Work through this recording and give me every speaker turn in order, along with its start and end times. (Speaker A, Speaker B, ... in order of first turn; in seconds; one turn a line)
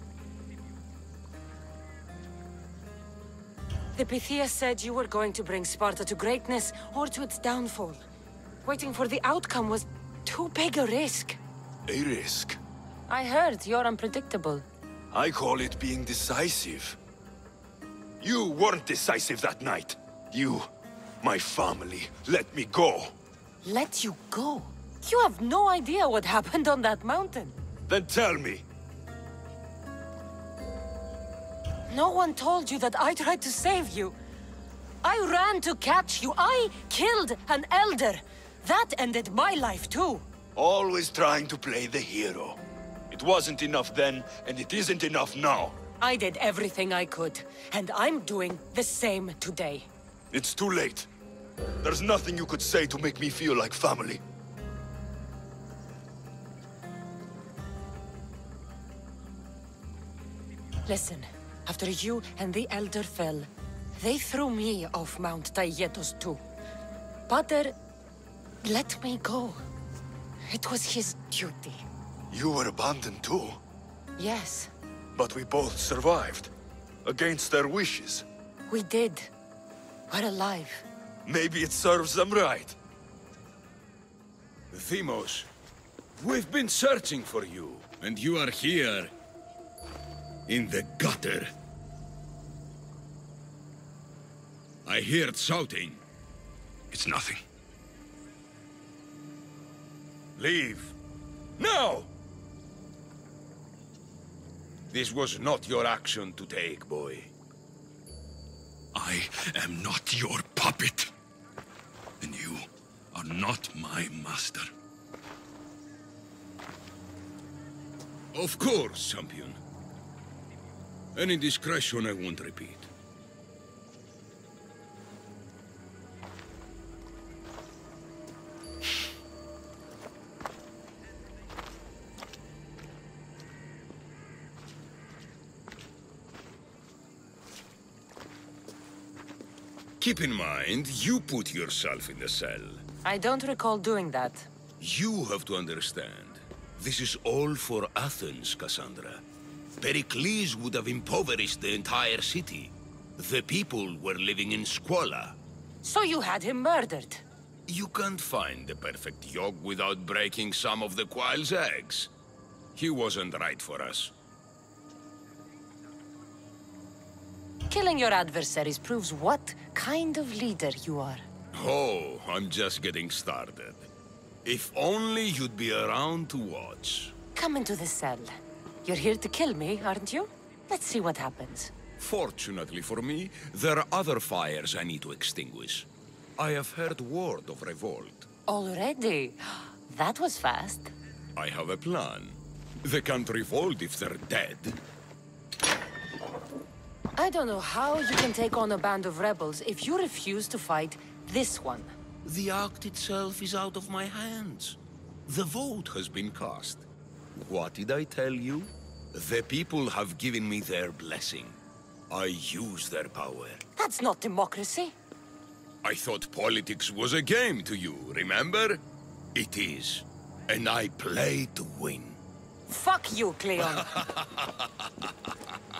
Speaker A: 4.0-8.0
Speaker A: 8.7-11.4
Speaker B: 11.9-12.6
Speaker A: 13.1-14.7
Speaker B: 15.1-17.0
Speaker B: 18.2-20.7
Speaker B: 21.2-23.1
Speaker A: 23.6-27.6
Speaker B: 27.9-28.6
Speaker A: 31.9-34.2
Speaker A: 35.0-40.2
Speaker B: 40.6-42.6
Speaker B: 43.1-45.8
Speaker A: 46.0-49.9
Speaker B: 50.3-51.1
Speaker B: 51.8-54.2
Speaker A: 60.9-66.4
Speaker A: 67.3-67.8
Speaker A: 68.6-69.6
Speaker A: 70.5-71.8
Speaker B: 72.3-73.6
Speaker A: 74.2-74.7
Speaker B: 75.2-76.5
Speaker B: 77.0-78.3
Speaker A: 78.7-79.3
Speaker A: 80.1-80.8
Speaker B: 81.2-82.8
Speaker C: 84.7-85.5
Speaker C: 86.2-89.1
Speaker C: 90.5-91.5
Speaker C: 94.9-96.0
Speaker B: 96.9-97.4
Speaker C: 100.4-100.9
Speaker C: 101.6-102.1
Speaker C: 104.9-107.3
Speaker B: 108.9-111.1
Speaker B: 112.2-114.7
Speaker C: 118.3-119.6
Speaker C: 121.2-122.9
Speaker C: 140.0-142.8
Speaker A: 143.0-144.5
Speaker C: 144.8-149.2
Speaker C: 149.8-155.4
Speaker A: 155.8-157.2
Speaker C: 157.7-162.1
Speaker C: 162.8-164.1
Speaker A: 167.7-171.3
Speaker C: 171.5-173.9
Speaker C: 174.4-177.1
Speaker A: 177.3-181.7
Speaker C: 182.0-188.3
Speaker A: 188.5-190.9
Speaker C: 191.4-194.8
Speaker A: 197.2-201.9
Speaker C: 202.2-206.8
Speaker C: 207.4-211.6
Speaker C: 212.1-213.6
Speaker A: 213.8-214.9
Speaker C: 215.8-218.8
Speaker C: 219.3-222.2
Speaker A: 222.7-223.9
Speaker C: 223.8-224.9